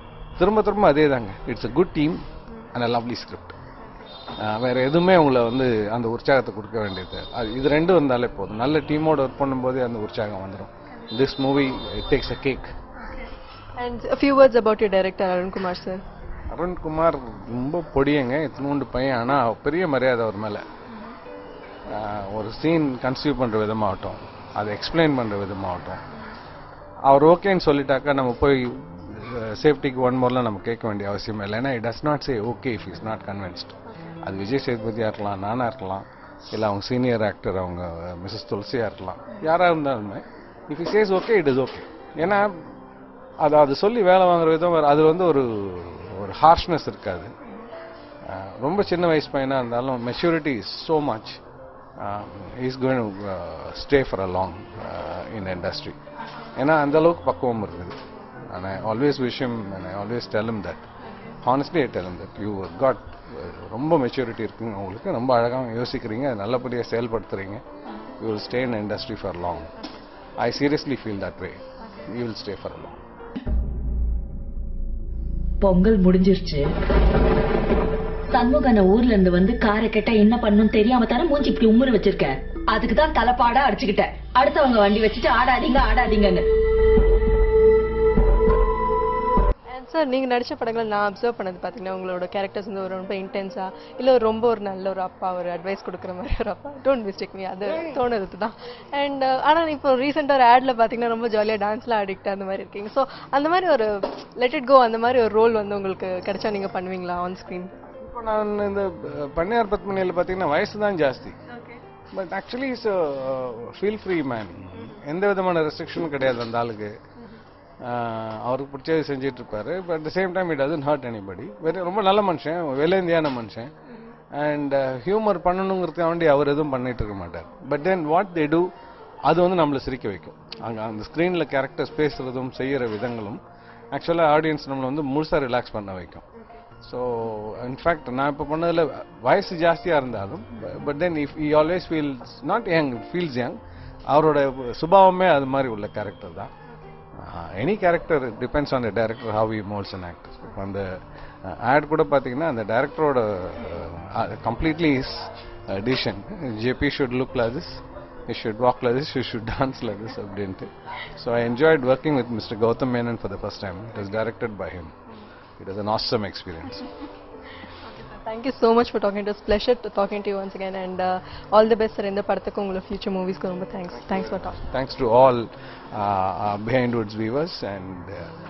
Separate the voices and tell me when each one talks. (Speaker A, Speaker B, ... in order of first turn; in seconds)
Speaker A: 0.4-2.2, 2.7-3.6, 4.3-12.7, 16.5-20.6, 21.9-26.0, 27.1-42.6, 43.4-47.3, 48.2-51.4, 52.0-56.0, 56.6-58.0, 58.5-60.8, 61.4-67.6, 68.2-69.7, 70.4-73.0, 107.9-111.4, 112.1-116.9, 117.8-123.7, 124.3-128.7, 129.2-133.4, 133.9-136.2, 136.8-143.6, 144.1-146.5, 147.1-150.9, 151.4-164.9, 165.6-166.9, 174.5-178.3
Speaker B: 13.1-16.0, 89.7-107.7, 167.9-174.6
Speaker C: 75.6-76.7, 78.3-86.4